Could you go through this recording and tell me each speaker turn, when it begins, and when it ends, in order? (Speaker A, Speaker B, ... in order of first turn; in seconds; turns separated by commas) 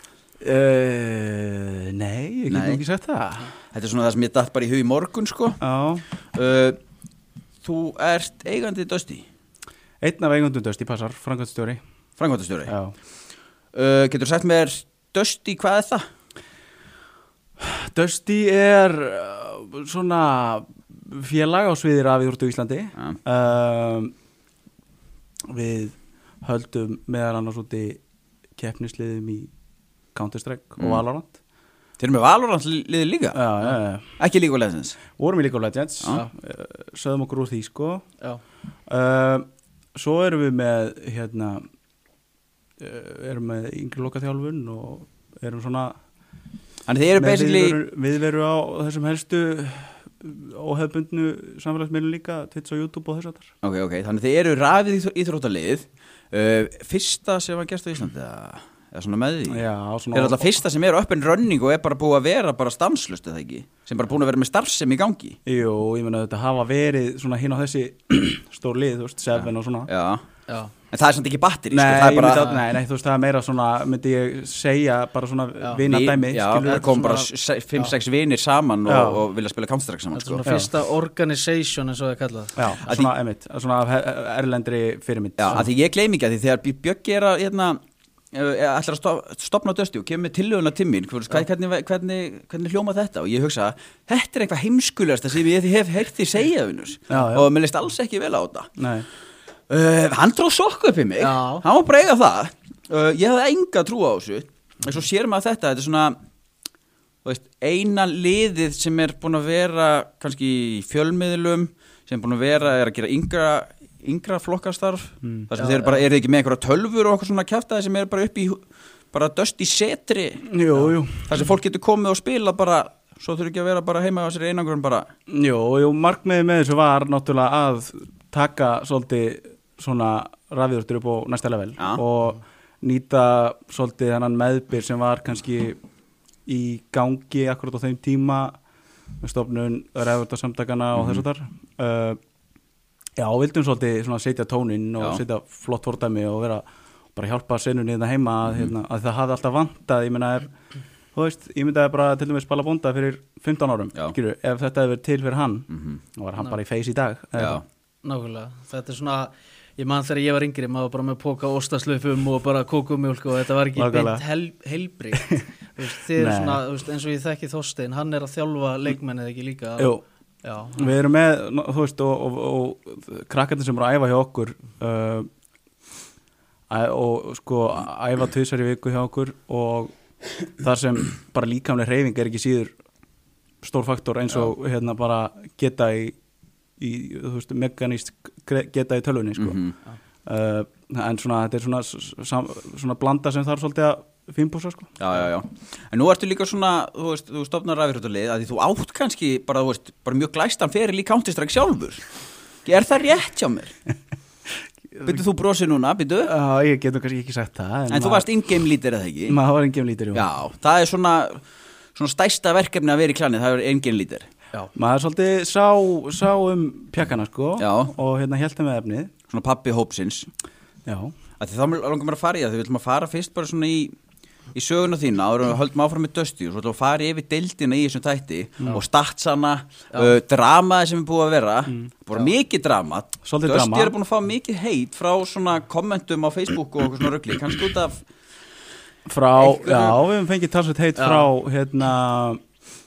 Speaker A: 0.4-3.5, Speaker B: 2.5-2.8, Speaker B: 3.7-5.6, Speaker A: 5.6-6.0, Speaker B: 6.3-6.8, Speaker B: 7.6-9.2, Speaker A: 10.0-11.8, Speaker B: 12.2-12.8, Speaker A: 12.7-12.9, Speaker B: 13.7-16.1, Speaker A: 17.6-24.1, Speaker A: 25.5-28.0, Speaker A: 28.6-29.5, Speaker A: 30.1-31.4, Speaker B: 30.8-31.0, Speaker B: 32.0-33.4, Speaker A: 33.3-34.1, Speaker B: 34.2-35.0, Speaker A: 35.2-38.0, Speaker A: 38.9-41.6, Speaker A: 42.8-46.0, Speaker B: 46.9-47.8, Speaker A: 47.2-53.5, Speaker B: 53.6-65.4, Speaker A: 59.5-60.5, Speaker A: 65.5-69.9, Speaker B: 69.3-70.2, Speaker B: 70.9-72.6, Speaker A: 71.7-76.9, Speaker B: 75.9-80.5, Speaker C: 76.6-77.9, Speaker A: 78.9-79.2, Speaker C: 80.1-83.0, Speaker A: 82.6-85.7, Speaker B: 85.4-87.8, Speaker B: 88.3-98.7, Speaker A: 97.1-97.5, Speaker A: 98.8-99.1, Speaker B: 99.7-106.2, Speaker C: 101.2-101.7, Speaker B: 107.2-120.5, Speaker A: 115.2-115.5, Speaker C: 115.6-116.0, Speaker A: 120.5-121.3, Speaker B: 121.2-125.1, Speaker A: 125.3-135.8, Speaker B: 131.8-132.0, Speaker A: 136.5-138.6, Speaker A: 139.2-142.2, Speaker B: 140.9-141.2, Speaker A: 143.2-146.7, Speaker A: 147.2-150.5, Speaker A: 151.2-157.6, Speaker B: 155.7-156.0, Speaker B: 157.4-157.6, Speaker C: 158.0-169.9, Speaker A: 163.8-164.2, Speaker A: 165.1-165.4, Speaker A: 166.1-166.6, Speaker C: 170.4-170.9, Speaker A: 170.8-175.3, Speaker A: 176.7-179.9, Speaker A: 180.6-182.8, Speaker A: 183.6-186.2, Speaker A: 186.8-189.6, Speaker B: 189.4-189.8, Speaker A: 190.3-195.0, Speaker B: 195.0-202.0, Speaker B: 202.7-203.7, Speaker B: 205.1-206.3, Speaker A: 206.2-208.3, Speaker B: 207.9-209.4, Speaker A: 209.3-210.2, Speaker B: 210.1-211.4, Speaker B: 211.9-214.3, Speaker A: 214.7-219.1, Speaker B: 217.6-217.9, Speaker B: 219.3-220.3, Speaker A: 220.9-221.1, Speaker B: 221.4-223.9, Speaker B: 224.5-238.0, Speaker A: 233.2-233.9, Speaker A: 239.1-242.4, Speaker B: 239.4-240.0, Speaker C: 241.0-241.3